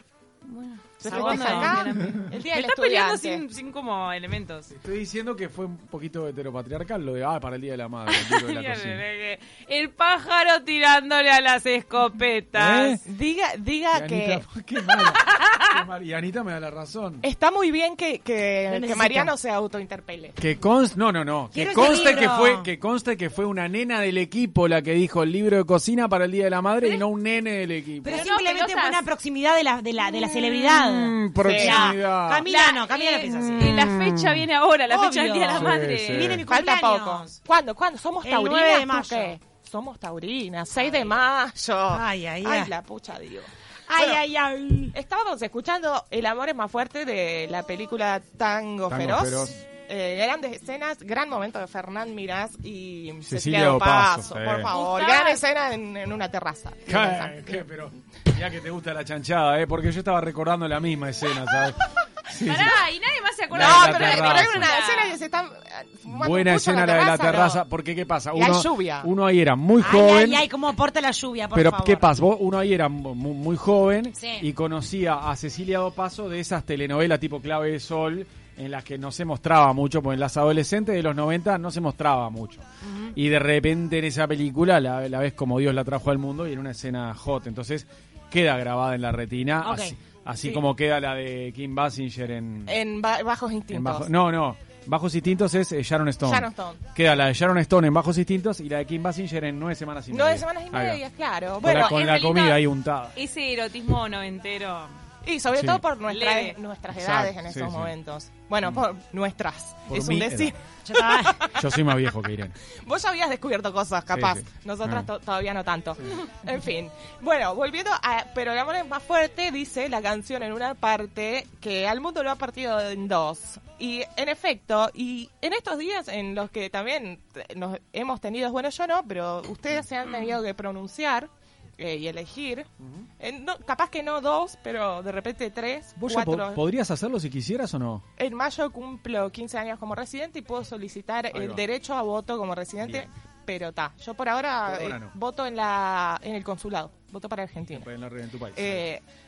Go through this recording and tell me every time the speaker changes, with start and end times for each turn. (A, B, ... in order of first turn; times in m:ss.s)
0:00.4-0:04.7 A
0:01.0-0:03.4 B
0:01.1-0:01.8 C
0:04.7-0:09.0 D
0:08.1-0:13.0 A
0:12.5-0:13.0 D
0:13.0-0:14.4 B
0:13.9-0:17.2 D
0:14.9-0:15.7 A
0:17.2-0:20.4 B
0:18.7-0:19.3 C
0:20.4-0:28.3 D
0:21.5-0:22.6 C
0:28.0-0:33.9 C
0:28.0-0:29.0 A
0:30.0-0:32.4 D
0:31.4-0:31.9 B
0:32.4-0:36.4 A
0:33.6-0:34.4 D
0:34.9-0:37.4 C
0:35.5-0:36.4 D
0:36.5-0:44.2 B
0:38.2-0:39.4 C
0:41.9-0:42.7 C
0:43.9-0:44.9 C
0:44.9-0:57.6 B
0:48.9-0:49.6 D
0:53.2-0:54.7 D
0:54.7-0:55.4 A
0:56.8-1:02.8 D
1:02.4-1:05.2 A
1:03.5-1:04.7 D
1:03.6-1:07.6 B
1:06.1-1:10.4 D
1:08.3-1:09.1 B
1:09.8-1:12.1 C
1:11.5-1:32.8 D
1:14.2-1:14.4 C
1:22.8-1:23.1 C
1:29.6-1:30.0 C
1:32.6-1:34.1 B
1:33.7-1:41.0 D
1:36.2-1:36.8 B
1:40.1-1:42.0 B
1:41.6-1:43.2 D
1:41.6-1:42.6 A
1:43.1-1:44.9 A
1:45.2-1:51.9 B
1:45.6-1:45.8 D
1:46.1-1:46.6 A
1:46.9-1:47.9 D
1:49.9-1:50.5 D
1:50.8-1:51.4 C
1:51.5-1:52.5 D
1:52.7-2:16.6 B
1:54.1-1:55.1 D
2:12.8-2:13.1 D
2:16.0-2:18.0 D
2:18.2-2:27.9 B
2:21.3-2:21.6 D
2:24.6-2:25.1 D
2:27.7-2:28.8 D
2:28.5-2:29.0 B